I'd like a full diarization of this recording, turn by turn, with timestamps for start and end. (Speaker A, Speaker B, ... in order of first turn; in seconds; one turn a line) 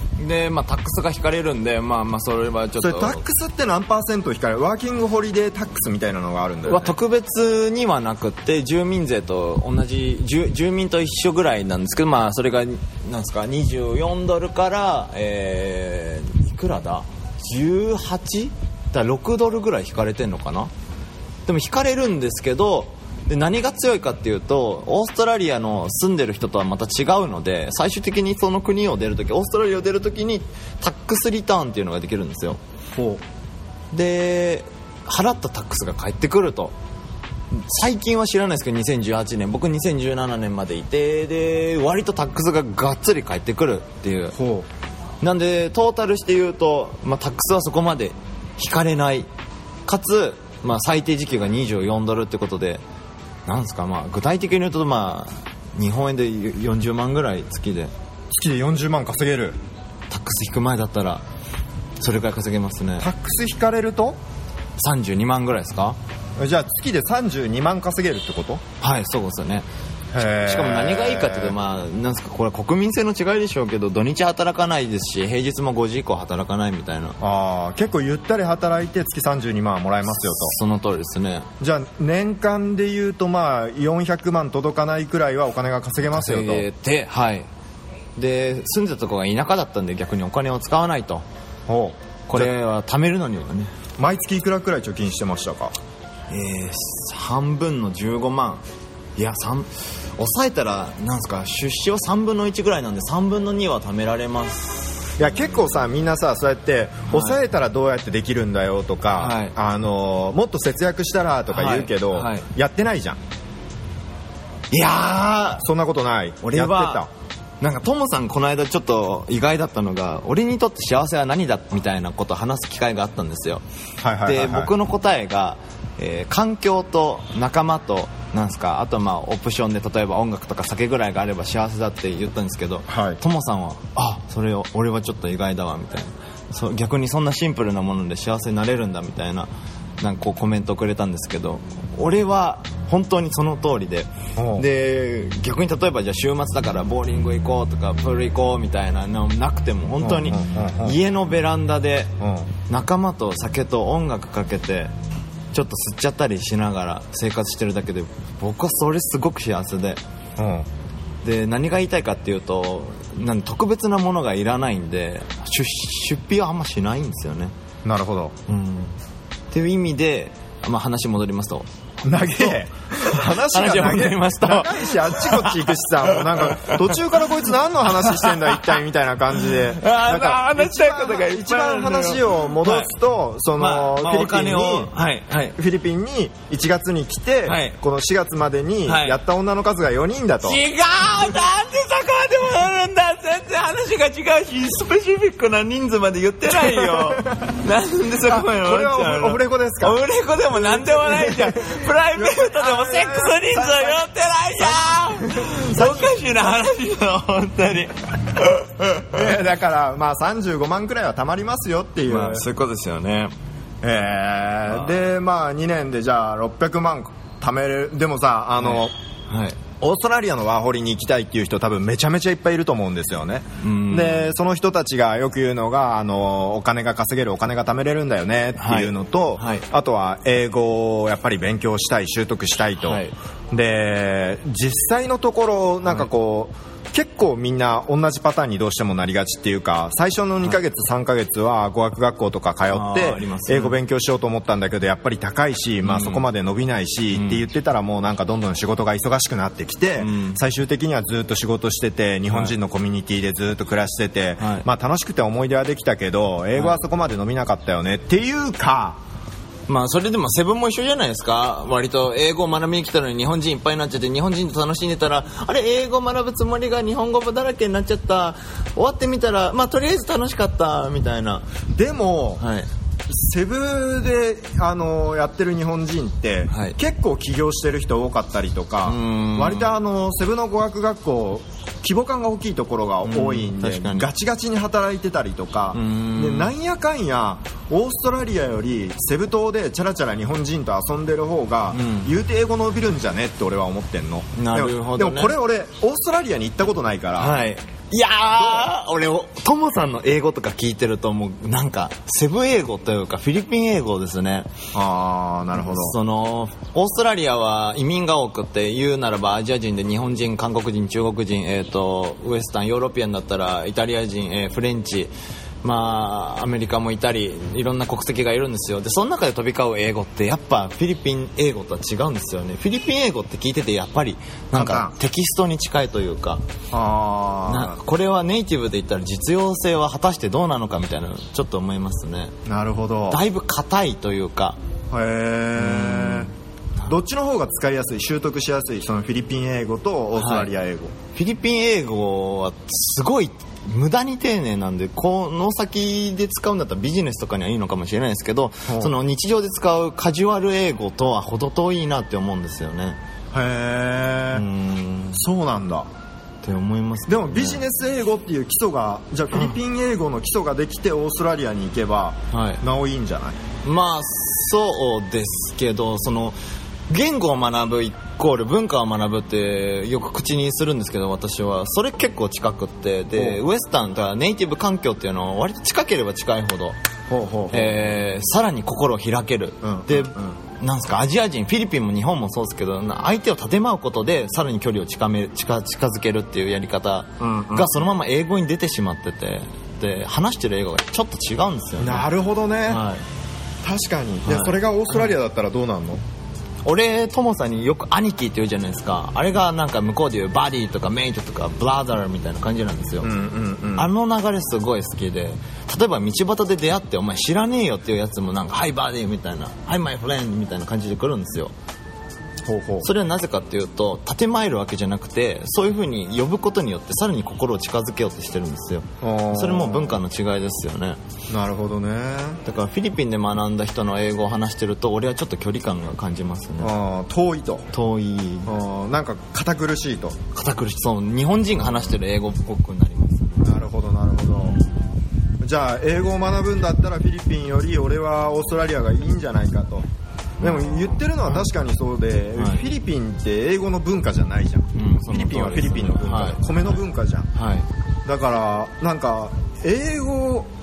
Speaker A: 0.2-3.2
Speaker B: 2.8-6.9
Speaker A: 6.7-20.7
Speaker A: 21.4-32.6
Speaker B: 33.0-33.2
Speaker A: 33.9-36.7
Speaker A: 37.5-44.4
Speaker B: 44.3-44.7
Speaker A: 45.2-49.3
Speaker A: 49.9-52.8
Speaker A: 53.5-57.9
Speaker B: 58.3-59.6
Speaker A: 60.1-61.2
Speaker A: 62.0-63.1
Speaker B: 63.0-64.2
Speaker A: 64.8-66.0
Speaker B: 66.4-68.6
Speaker A: 68.8-69.7
Speaker B: 70.1-71.5
Speaker A: 70.2-77.2
Speaker B: 77.2-80.5
Speaker A: 80.1-81.5
Speaker B: 81.6-86.7
Speaker A: 86.1-87.5
Speaker A: 88.2-91.2
Speaker B: 91.7-92.5
Speaker A: 92.3-93.7
Speaker B: 94.0-95.7
Speaker A: 96.3-98.6
Speaker A: 99.2-105.1
Speaker B: 105.2-113.2
Speaker A: 107.1-107.4
Speaker A: 109.2-109.5
Speaker A: 111.5-112.5
Speaker A: 114.7-115.6
Speaker B: 115.6-117.1
Speaker A: 116.4-117.0
Speaker A: 117.6-123.6
Speaker B: 124.0-124.7
Speaker A: 124.2-152.1
Speaker B: 132.9-133.2
Speaker B: 144.4-144.7
Speaker B: 150.0-151.0
Speaker B: 152.2-152.5
Speaker A: 152.7-154.9
Speaker A: 155.5-160.0
Speaker B: 160.4-160.7
Speaker A: 161.2-167.5
Speaker B: 167.8-168.3
Speaker A: 168.5-168.9
Speaker A: 169.5-171.7
Speaker B: 172.0-184.9
Speaker A: 172.3-178.8
Speaker A: 179.4-182.9
Speaker A: 183.6-185.6
Speaker B: 185.6-190.6
Speaker A: 187.4-187.8
Speaker A: 188.8-189.2
Speaker A: 190.4-209.3
Speaker B: 196.5-197.5
Speaker B: 198.2-200.0
Speaker B: 200.5-204.0
Speaker B: 204.6-206.1
Speaker B: 209.1-212.4
Speaker A: 212.1-213.3
Speaker B: 213.8-218.9
Speaker A: 214.7-214.9
Speaker A: 218.6-219.6
Speaker B: 219.8-259.0
Speaker A: 223.6-224.3
Speaker A: 228.6-229.6
Speaker A: 232.8-233.1
Speaker A: 242.7-243.8
Speaker A: 245.8-246.2
Speaker A: 247.1-247.4
Speaker A: 250.0-250.4
Speaker A: 254.4-254.6
Speaker A: 259.7-271.5
Speaker B: 271.7-272.4
Speaker A: 272.4-272.7
Speaker B: 273.1-297.4
Speaker A: 276.5-276.8
Speaker A: 278.8-279.7
Speaker A: 283.0-284.1
Speaker A: 285.7-286.5
Speaker A: 291.7-292.1
Speaker A: 294.4-295.4
Speaker A: 297.2-304.5
Speaker B: 298.4-298.7
Speaker B: 304.7-306.0
Speaker A: 305.5-326.4
Speaker B: 324.5-324.9
Speaker B: 326.7-327.8
Speaker A: 327.5-332.3
Speaker B: 332.4-333.2
Speaker A: 333.1-334.6
Speaker B: 334.9-336.3
Speaker A: 335.6-336.3
Speaker B: 336.9-340.9
Speaker A: 340.2-340.5
Speaker A: 341.1-353.0
Speaker B: 348.7-348.9
Speaker B: 353.3-354.4
Speaker A: 354.3-355.2
Speaker B: 355.1-355.9
Speaker A: 356.4-357.6
Speaker B: 357.1-363.4
Speaker A: 362.3-362.6
Speaker A: 363.6-366.4
Speaker A: 366.9-376.8
Speaker B: 373.1-373.4
Speaker B: 377.1-378.0
Speaker A: 377.5-392.1
Speaker B: 379.6-380.4
Speaker B: 387.2-387.8
Speaker B: 391.8-392.8
Speaker A: 392.7-393.0
Speaker B: 393.6-396.0
Speaker A: 394.2-395.1
Speaker A: 396.6-403.1
Speaker B: 403.0-403.9
Speaker A: 403.8-411.5
Speaker B: 412.4-412.9
Speaker A: 412.8-421.0
Speaker B: 419.0-420.0
Speaker B: 421.3-422.4
Speaker A: 422.4-426.7
Speaker B: 426.6-427.7
Speaker A: 427.7-428.5
Speaker B: 428.4-430.2
Speaker A: 430.3-433.5
Speaker B: 433.4-434.6
Speaker A: 434.4-434.8
Speaker B: 435.4-439.9
Speaker A: 440.4-441.4
Speaker B: 440.4-447.3
Speaker A: 442.4-442.6
Speaker A: 444.7-446.7
Speaker A: 447.3-447.7
Speaker B: 448.1-450.5